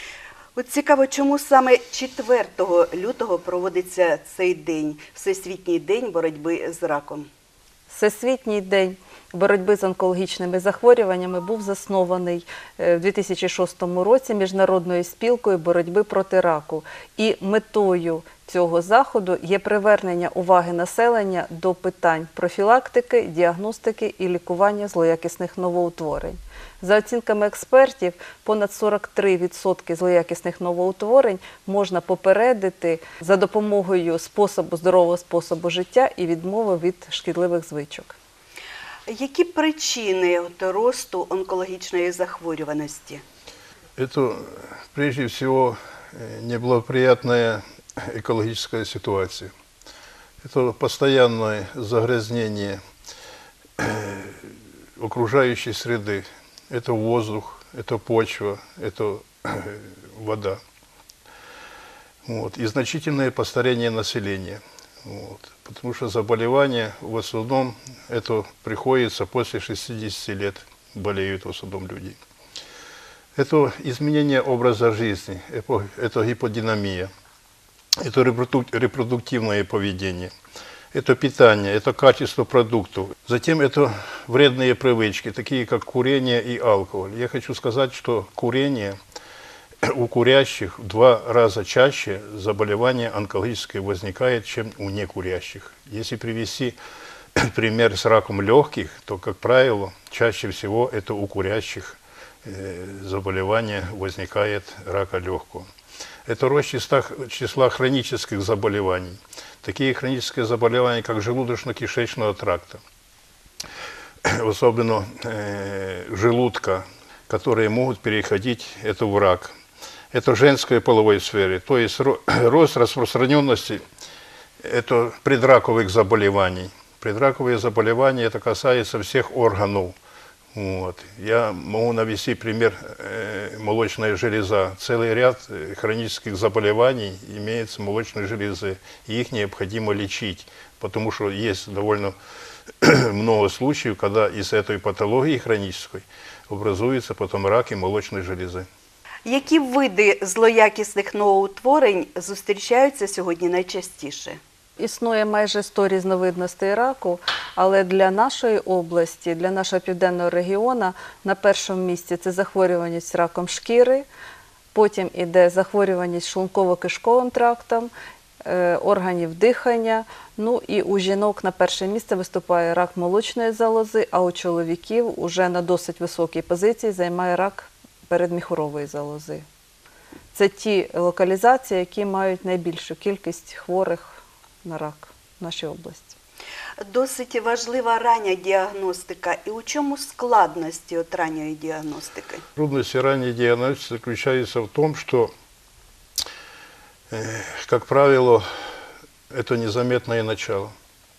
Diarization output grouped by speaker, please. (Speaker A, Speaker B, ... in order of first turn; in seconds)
Speaker A: 0.6-7.3, 39.1-43.2, 149.2-154.4, 186.8-192.4
Speaker B: 7.9-38.2, 154.8-164.1, 164.7-167.9, 168.4-179.4, 180.3-186.2
Speaker C: 44.0-49.5, 50.4-52.8, 53.8-60.6, 62.2-72.2, 73.3-77.1, 78.0-80.3, 80.9-89.0, 89.8-96.8, 97.4-105.7, 106.3-112.8, 114.2-119.5, 120.1-123.8, 124.6-129.9, 130.5-142.2, 142.8-148.7, 192.6-195.3, 197.1-198.7, 199.3-200.7